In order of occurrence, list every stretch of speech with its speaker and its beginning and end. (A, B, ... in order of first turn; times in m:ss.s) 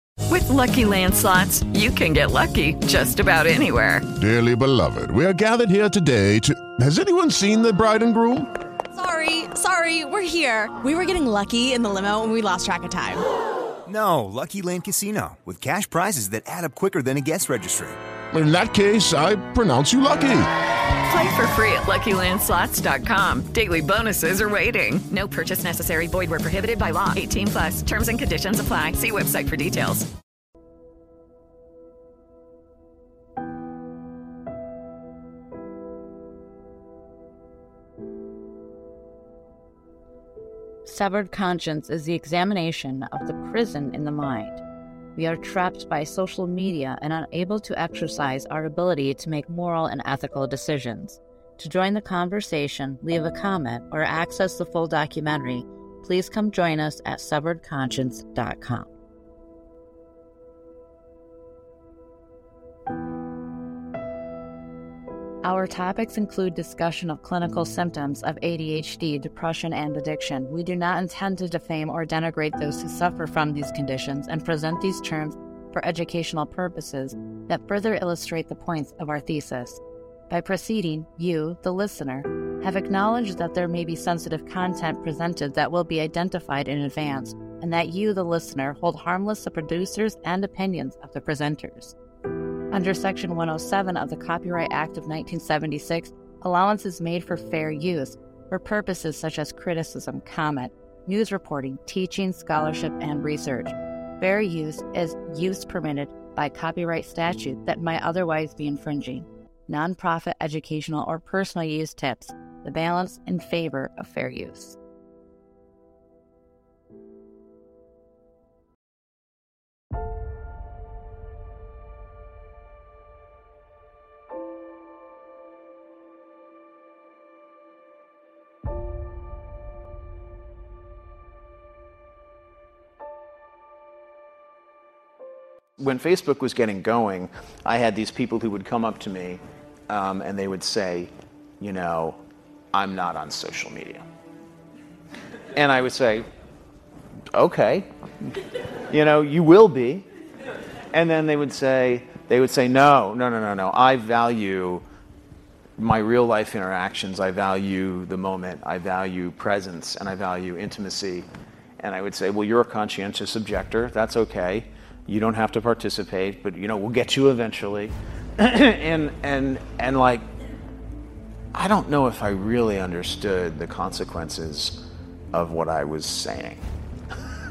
0:00.3-0:04.1 A
0:04.2-0:08.5 B
0:08.9-0:13.2 C
0:13.9-0:18.0 D
0:18.3-0:20.5 B
0:21.0-0:30.1 A
0:40.8-0:44.6 E
0:45.2-0:58.9 E
1:05.4-1:32.0 E
1:32.7-1:54.8 E
2:15.8-2:22.2 F
2:22.7-2:24.1 F
2:25.6-2:26.3 F
2:27.3-2:27.9 F
2:28.9-2:30.1 F
2:30.9-2:34.8 F
2:35.8-2:41.3 F
2:41.8-2:50.2 F
2:51.5-2:56.7 F